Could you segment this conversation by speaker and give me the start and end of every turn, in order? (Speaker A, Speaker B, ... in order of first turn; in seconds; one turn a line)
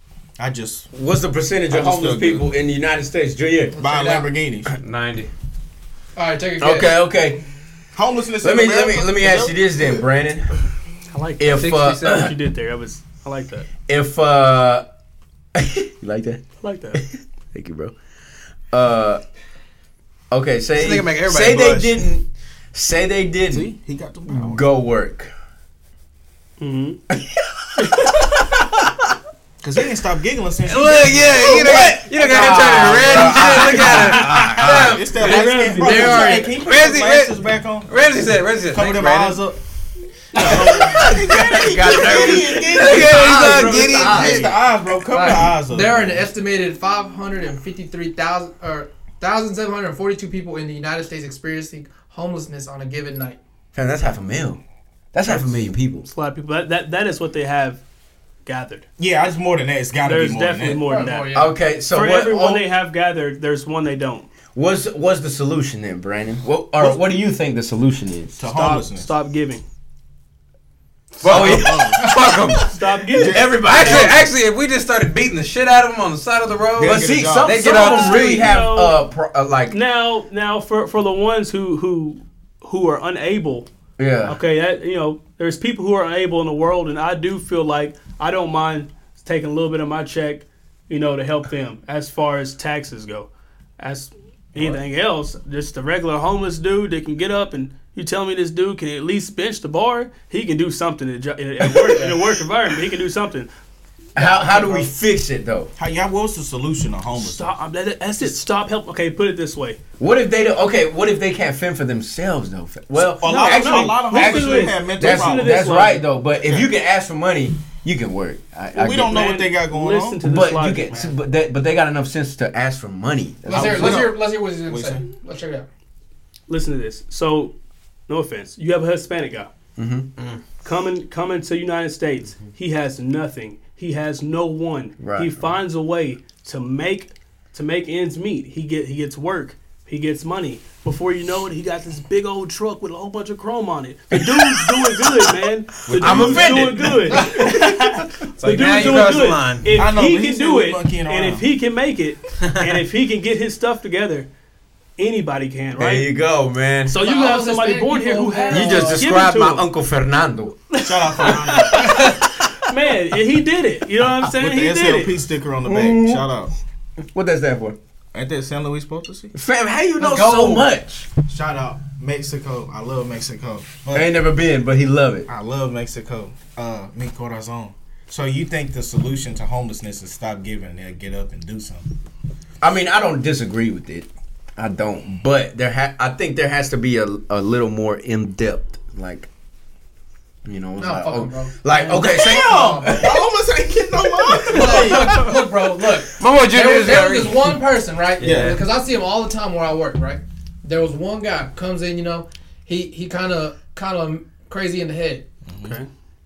Speaker A: 0.4-0.9
Speaker B: 0.9-3.7
Speaker A: 1.7-2.5
Speaker A: 3.8-4.7
Speaker C: 3.9-4.2
Speaker C: 4.8-5.3
Speaker D: 6.2-6.9
Speaker B: 6.6-7.4
Speaker A: 7.9-10.0
Speaker B: 8.4-10.6
Speaker E: 11.1-13.7
Speaker B: 11.4-12.3
Speaker C: 11.5-12.3
Speaker B: 13.9-14.8
Speaker B: 15.5-17.9
Speaker E: 16.6-17.0
Speaker B: 18.7-19.2
Speaker B: 20.3-23.7
Speaker C: 20.7-22.0
Speaker A: 23.5-24.6
Speaker B: 24.3-25.3
Speaker E: 26.6-27.0
Speaker B: 27.1-29.1
Speaker A: 29.6-31.9
Speaker C: 30.6-39.4
Speaker B: 31.3-34.9
Speaker A: 33.7-37.9
Speaker E: 34.1-34.6
Speaker E: 35.1-36.5
Speaker D: 35.8-36.5
Speaker A: 38.7-39.6
Speaker A: 40.4-46.2
Speaker E: 40.4-40.9
Speaker B: 40.4-44.5
Speaker C: 40.4-44.5
Speaker D: 43.9-44.4
Speaker D: 45.1-53.4
Speaker B: 53.7-54.6
Speaker B: 55.1-56.1
Speaker E: 56.0-57.8
Speaker E: 58.4-58.9
Speaker A: 59.0-60.8
Speaker E: 60.0-61.3
Speaker D: 60.8-61.5
Speaker B: 61.3-62.7
Speaker E: 61.9-64.3
Speaker B: 64.5-68.4
Speaker A: 68.4-69.1
Speaker E: 68.5-69.6
Speaker C: 71.2-72.7
Speaker B: 71.2-72.1
Speaker A: 71.2-72.1
Speaker E: 72.7-73.4
Speaker A: 73.1-74.2
Speaker B: 73.2-74.2
Speaker C: 73.4-78.5
Speaker A: 76.8-77.6
Speaker B: 76.8-79.8
Speaker E: 77.6-79.0
Speaker E: 79.7-83.7
Speaker B: 84.0-84.4
Speaker E: 84.2-103.5
Speaker B: 101.7-102.2
Speaker B: 104.2-105.7
Speaker E: 104.2-104.9
Speaker A: 105.8-107.5
Speaker E: 107.2-109.8
Speaker B: 110.0-119.3
Speaker A: 113.0-115.7
Speaker E: 113.3-116.0
Speaker A: 116.4-116.7
Speaker A: 118.7-120.2
Speaker E: 119.1-121.1
Speaker B: 120.2-124.1
Speaker D: 123.5-125.7
Speaker A: 123.5-125.1
Speaker E: 126.5-127.5
Speaker E: 128.1-129.5
Speaker B: 129.8-130.1
Speaker E: 130.6-154.3
Speaker B: 135.0-135.5
Speaker B: 144.1-144.5
Speaker B: 145.9-147.9
Speaker A: 145.9-146.5
Speaker C: 146.1-146.6
Speaker C: 148.3-149.7
Speaker A: 149.7-151.4
Speaker E: 155.0-156.1
Speaker B: 155.8-156.9
Speaker E: 156.9-159.7
Speaker D: 156.9-159.1
Speaker B: 158.5-160.6
Speaker E: 160.7-165.1
Speaker A: 160.8-162.0
Speaker C: 161.8-162.2
Speaker A: 164.3-166.5
Speaker B: 165.6-166.3
Speaker B: 167.1-167.8
Speaker A: 168.1-169.3
Speaker B: 169.3-171.1
Speaker D: 170.0-170.5
Speaker A: 171.2-174.2
Speaker B: 173.9-175.3
Speaker A: 175.3-181.8
Speaker B: 182.6-189.3
Speaker B: 190.4-193.2
Speaker D: 190.8-193.2
Speaker A: 191.9-195.3
Speaker D: 194.3-205.2
Speaker C: 196.2-197.5
Speaker A: 198.2-198.6
Speaker A: 205.5-205.8
Speaker E: 205.6-205.9